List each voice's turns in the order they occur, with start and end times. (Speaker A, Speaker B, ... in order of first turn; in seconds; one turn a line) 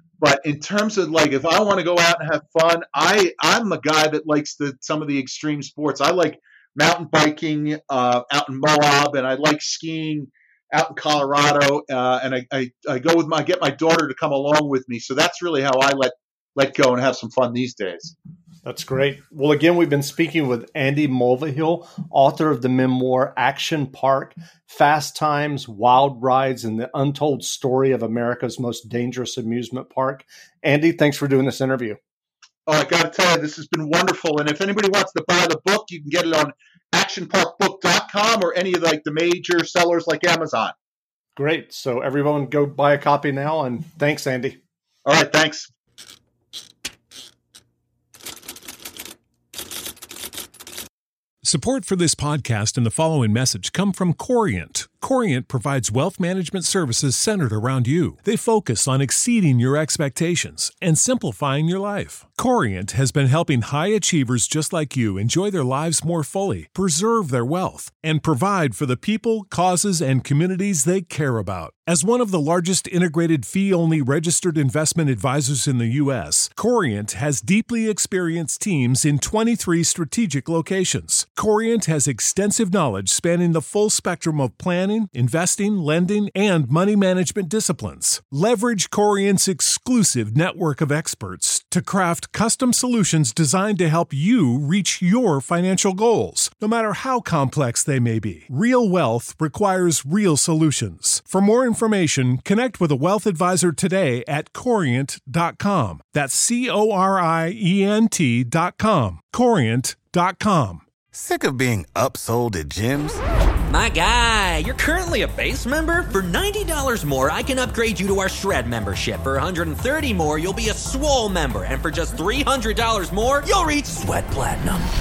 Speaker A: 0.2-18.1
Speaker B: 18.6-32.0
Speaker A: 32.7-40.7
Speaker B: 41.4-44.6
Speaker A: 45.0-45.7
Speaker C: 51.4-110.8
Speaker D: 111.1-113.2
Speaker E: 113.7-124.9